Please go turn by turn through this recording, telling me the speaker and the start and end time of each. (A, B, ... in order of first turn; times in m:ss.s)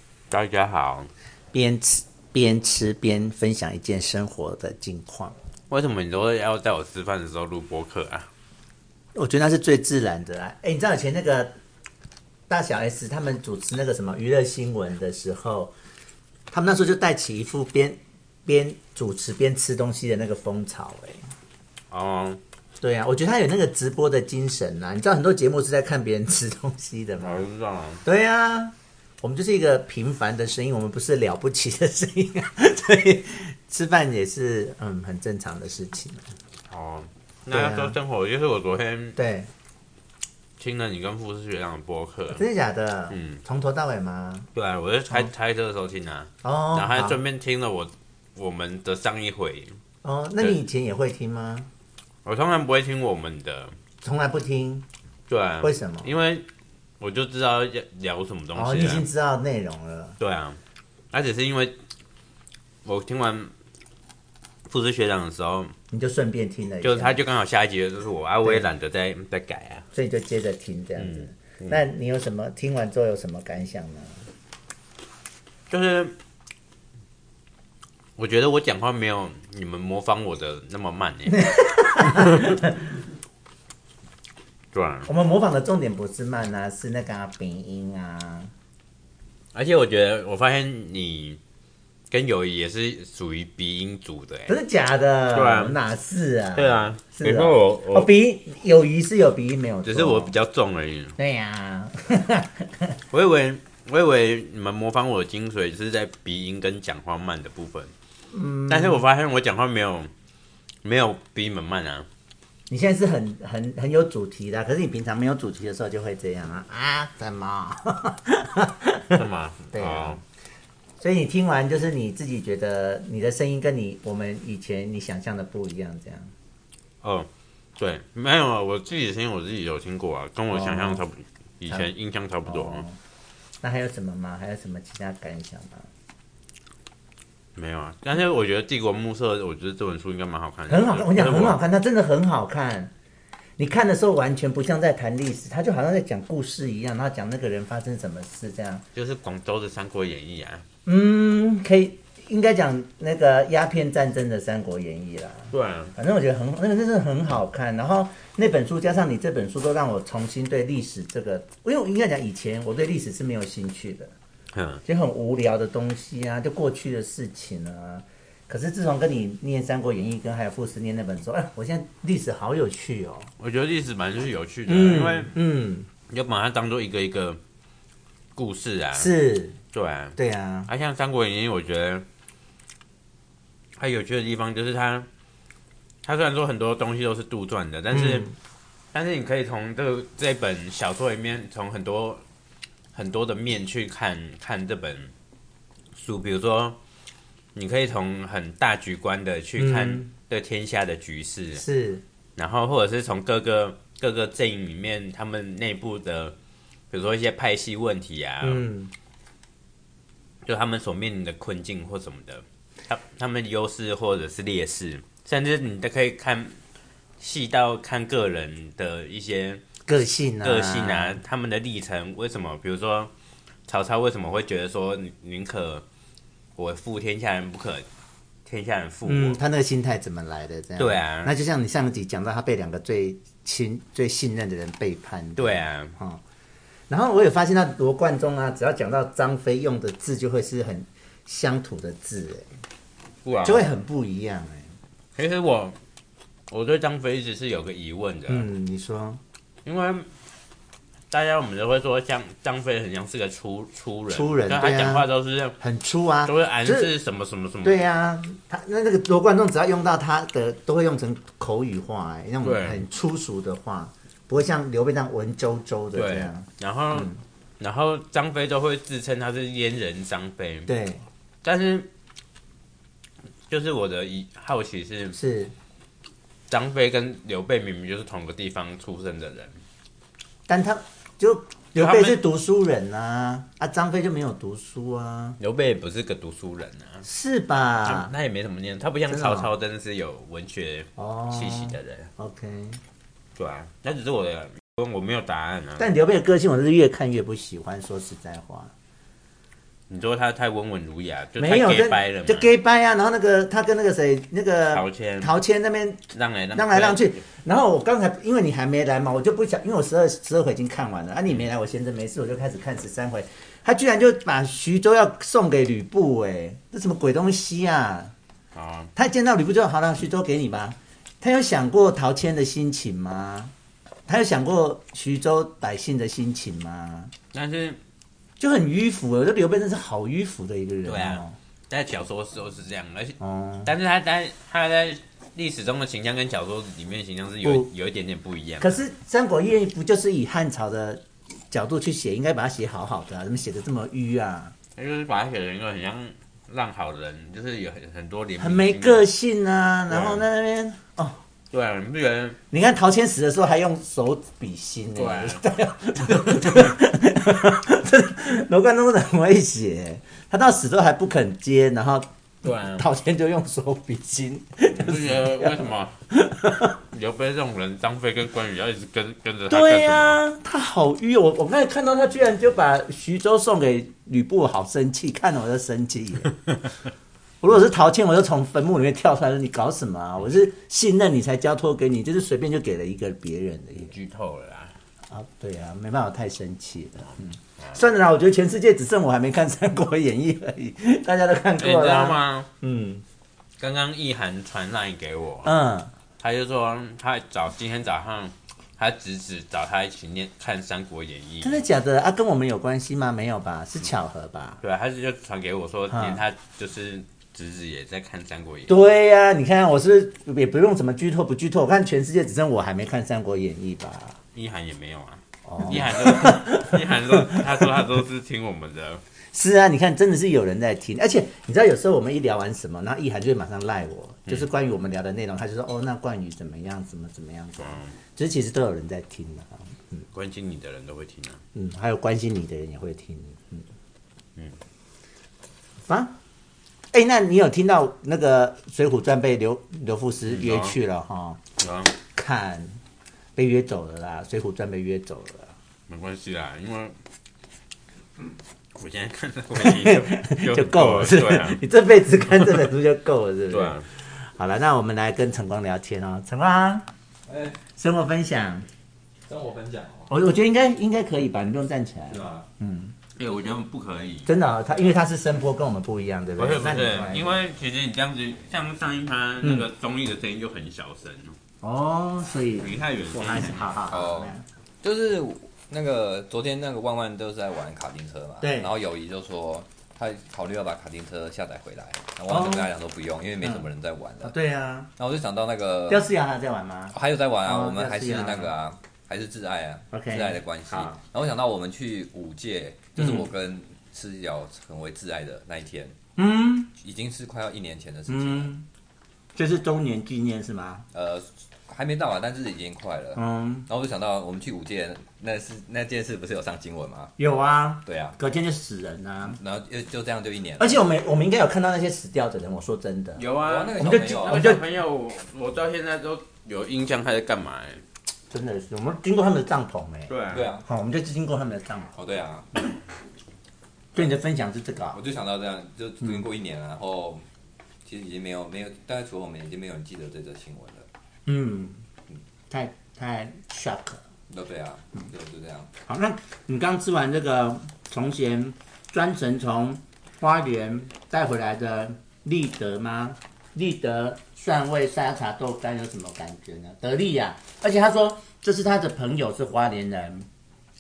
0:00.3-0:01.1 A
0:01.5-0:05.4 B
0:05.7-0:08.3 A
0:09.2-0:11.5 B
0:12.5-0:15.7 B
0:16.5-0:21.3 B
0:21.9-0:22.4 A
0:22.8-0:27.4 B
0:27.2-0:28.0 A
0:28.0-0:36.3 B
0:36.7-0:39.2 A
0:37.5-0:38.0 B
0:39.2-0:39.5 B
0:40.6-0:42.4 A
0:42.3-0:44.5 B
0:43.1-0:43.4 A
0:44.6-0:49.8 A
0:46.4-0:47.2 B
0:50.0-0:51.7 B
0:52.2-0:53.8 A
0:54.0-0:54.9 B
0:55.3-0:56.5 A
0:55.6-0:56.1 B
0:57.0-0:59.1 A
0:58.5-1:00.2 B
1:00.2-1:00.6 A
1:01.1-1:01.8 A
1:02.8-1:03.5 A
1:04.7-1:05.8 A
1:05.9-1:07.2 B
1:06.8-1:09.9 A
1:09.9-1:14.2 B
1:11.0-1:11.8 A
1:15.7-1:16.2 A
1:18.2-1:21.5 A
1:21.3-1:22.9 B
1:22.0-1:22.6 A
1:24.7-1:25.1 A
1:25.1-1:28.5 B
1:29.5-1:31.4 A
1:32.1-1:34.6 A
1:34.5-1:40.3 B
1:35.3-1:35.8 A
1:36.6-1:38.1 A
1:39.9-1:41.2 A
1:41.2-1:43.0 B
1:43.1-1:47.9 A
1:48.3-1:49.0 B
1:48.7-1:50.1 A
1:50.8-1:52.1 A
1:52.7-1:59.2 B
1:59.2-2:00.2 A
1:59.7-2:00.2 B
2:01.0-2:06.3 B
2:07.0-2:12.8 A
2:10.5-2:11.0 B
2:12.5-2:13.0 B
2:13.6-2:15.9 B
2:17.6-2:21.6 A
2:20.7-2:22.9 B
2:23.6-2:28.8 B
2:29.0-2:30.6 A
2:30.9-2:44.1 B
2:35.5-2:35.9 A
2:44.5-2:44.8 A
2:44.9-2:53.3 B
2:53.4-2:55.4 A
2:54.7-2:55.9 B
2:56.1-2:57.4 A
2:58.4-2:59.1 A
2:59.0-2:59.6 B
2:59.7-3:00.2 A
3:00.2-3:00.7 B
3:00.7-3:02.0 A
3:03.8-3:05.1 A
3:06.0-3:08.3 A
3:07.9-3:08.4 B
3:08.9-3:12.2 A
3:12.9-3:15.1 A
3:15.9-3:16.8 A
3:17.6-3:21.6 A
3:19.6-3:20.1 B
3:21.5-3:22.0 B
3:22.4-3:26.4 A
3:26.9-3:28.7 A
3:28.4-3:28.9 B
3:30.4-3:36.6 A
3:37.2-3:39.6 A
3:39.9-3:41.2 B
3:40.4-3:43.1 A
3:43.7-3:45.8 A
3:46.6-3:47.9 A
3:48.5-3:49.4 A
3:49.0-3:56.2 B
3:50.8-3:51.3 A
3:55.4-3:56.0 A
3:56.9-4:02.5 B
4:03.2-4:03.7 A
4:03.4-4:04.7 B
4:05.2-4:05.8 A
4:06.5-4:08.5 A
4:08.3-4:09.2 B
4:09.6-4:10.1 A
4:11.1-4:15.6 A
4:14.1-4:15.1 B
4:15.6-4:16.9 B
4:16.2-4:17.8 A
4:17.6-4:27.2 B
4:22.4-4:22.8 A
4:26.0-4:30.7 A
4:30.7-4:31.0 B
4:31.4-4:31.9 A
4:33.5-4:35.2 A
4:35.1-4:35.5 B
4:36.5-4:39.6 A
4:40.5-4:45.4 B
4:41.8-4:42.2 A
4:45.4-4:47.0 A
4:47.0-4:48.1 B
4:47.9-4:52.1 A
4:49.1-4:49.5 B
4:51.0-4:52.8 B
4:53.4-4:55.9 A
4:55.8-4:58.7 B
4:59.9-5:02.5 A
5:01.4-5:06.0 B
5:04.7-5:05.3 A
5:06.1-5:07.2 A
5:06.5-5:18.1 B
5:18.5-5:18.9 A
5:19.0-5:23.5 B
5:24.1-5:27.1 B
5:27.3-5:27.8 A
5:28.4-5:31.4 B
5:30.8-5:38.8 A
5:33.2-5:33.7 B
5:37.4-5:37.7 B
5:38.6-5:44.6 B
5:44.8-5:49.1 A
5:48.4-5:51.2 B
5:49.9-5:50.2 A
5:51.5-5:52.4 A
5:52.5-6:02.1 B
5:55.0-5:55.4 A
6:02.4-6:02.8 A
6:02.6-6:06.8 B
6:04.8-6:06.0 A
6:06.9-6:10.2 A
6:09.5-6:16.4 B
6:17.4-6:23.9 B
6:23.8-6:24.8 A
6:25.1-6:33.0 B
6:31.6-6:32.5 A
6:33.6-6:35.5 A
6:35.4-6:35.9 B
6:36.2-6:41.6 A
6:41.4-6:44.6 B
6:44.6-6:48.8 A
6:45.9-6:46.2 B
6:48.7-6:54.2 B
6:54.3-6:59.0 A
6:55.4-6:58.0 B
6:59.3-7:10.0 B
7:07.6-7:08.0 A
7:10.1-7:11.4 A
7:11.5-7:13.7 B
7:15.9-7:16.1 B
7:16.9-7:21.4 B
7:20.3-7:20.8 A
7:21.6-7:21.9 A
7:22.1-7:22.8 B
7:23.4-7:25.5 B
7:25.9-7:27.0 A
7:28.8-7:31.6 A
7:29.6-7:36.9 B
7:33.5-7:33.9 A
7:37.3-7:37.6 C
7:37.8-7:38.7 B
7:39.3-7:40.1 C
7:40.1-7:43.0 B
7:42.1-7:42.5 C
7:43.2-7:44.3 A
7:44.3-7:47.4 B
7:46.4-7:51.4 A
7:49.4-7:49.7 B
7:51.6-7:54.4 B
7:52.6-7:53.8 A
7:53.9-8:04.4 C
7:58.4-7:58.7 B
8:02.3-8:02.7 B
8:04.2-8:04.9 B
8:05.0-8:06.1 C
8:05.9-8:08.5 B
8:06.9-8:16.0 C
8:09.9-8:11.0 B
8:13.0-8:13.3 B
8:16.2-8:16.7 B
8:16.8-8:18.5 C
8:18.1-8:18.6 B
8:19.4-8:20.8 B
8:20.9-8:27.1 C
8:23.2-8:23.7 B
8:27.2-8:29.4 B
8:27.9-8:28.2 C
8:29.2-8:30.8 C
8:30.6-8:33.2 B
8:33.2-8:37.8 A
8:33.4-8:34.6 C
8:33.8-8:34.6 B
8:38.3-8:41.9 B
8:40.1-8:40.5 A
8:40.3-8:40.7 C
8:42.0-8:42.5 C
8:44.0-8:45.0 B
8:44.9-8:47.3 C
8:47.8-8:50.9 C
8:51.3-8:51.8 B
8:52.5-8:54.0 B
8:54.3-8:55.7 C
8:55.9-9:10.3 B